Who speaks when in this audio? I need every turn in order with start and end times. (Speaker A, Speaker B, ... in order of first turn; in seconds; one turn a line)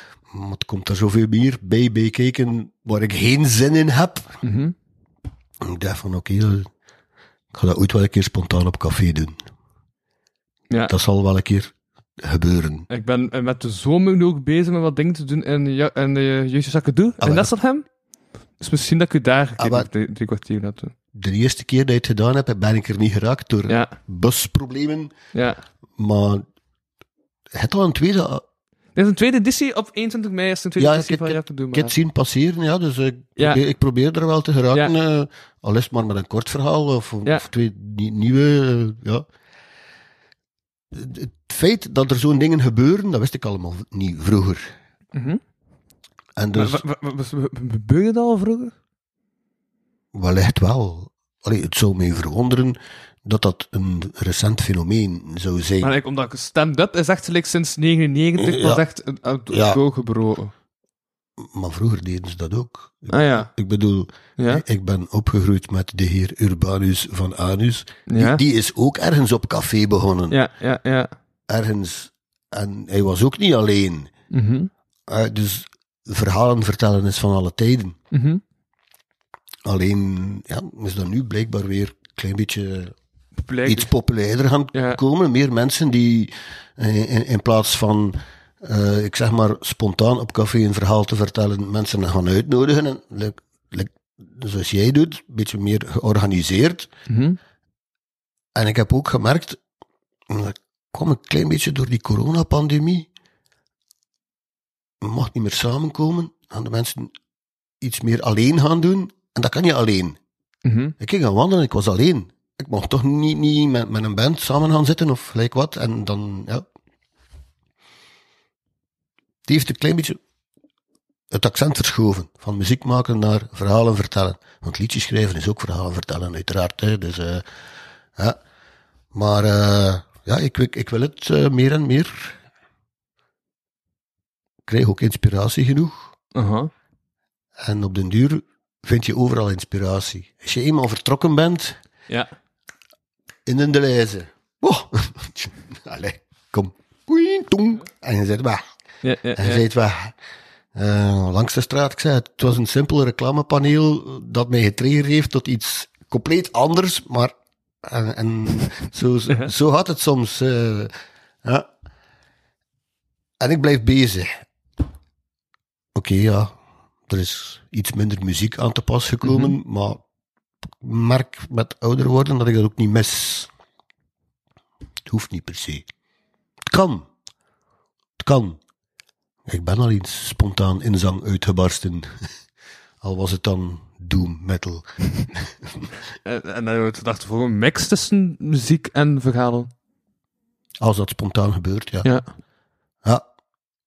Speaker A: 0.3-4.4
Speaker B: 4.4-4.7
Speaker A: 5.6-6.7
Speaker A: 7.5-9.4
Speaker A: 10.9-12.9
Speaker B: 12.9-17.9
Speaker A: 17.2-17.5
Speaker B: 18.6-20.9
Speaker A: 19.6-19.9
Speaker A: 21.1-25.1
Speaker B: 25.3-25.6
Speaker A: 26.0-26.4
Speaker A: 27.5-28.4
Speaker B: 28.9-31.9
Speaker A: 30.8-39.2
Speaker A: 40.9-44.7
Speaker B: 45.1-45.4
Speaker A: 46.4-46.8
Speaker B: 46.5-48.7
Speaker A: 50.1-55.9
Speaker B: 55.8-60.5
Speaker A: 58.4-58.8
Speaker A: 59.5-59.8
Speaker A: 61.4-70.4
Speaker B: 63.1-63.5
Speaker B: 64.4-64.6
Speaker B: 68.1-68.4
Speaker B: 70.3-71.1
Speaker A: 71.5-74.1
Speaker B: 74.3-74.7
Speaker A: 75.1-78.0
Speaker B: 78.1-78.4
Speaker A: 79.7-82.9
Speaker B: 83.5-83.9
Speaker A: 83.6-96.9
Speaker B: 84.7-85.0
Speaker B: 97.1-97.4
Speaker A: 98.5-99.6
Speaker A: 100.3-103.1
Speaker A: 105.0-107.1
Speaker A: 107.8-110.2
Speaker B: 110.6-110.9
Speaker A: 111.0-116.7
Speaker A: 119.5-120.2
Speaker A: 121.3-127.4
Speaker A: 129.1-132.4
Speaker A: 134.7-136.1
Speaker B: 136.3-136.7
Speaker A: 137.6-141.8
Speaker A: 143.4-148.6
Speaker B: 149.0-149.6
Speaker A: 149.4-150.1
Speaker A: 150.7-160.9
Speaker A: 161.4-161.7
Speaker A: 163.4-164.4
Speaker A: 165.9-166.5
Speaker A: 167.1-170.0
Speaker B: 169.2-169.5
Speaker A: 170.8-173.5
Speaker A: 175.1-175.8
Speaker A: 176.7-177.1
Speaker A: 178.2-178.6
Speaker A: 179.4-182.3
Speaker A: 183.0-185.8
Speaker B: 186.2-189.7
Speaker A: 190.8-192.1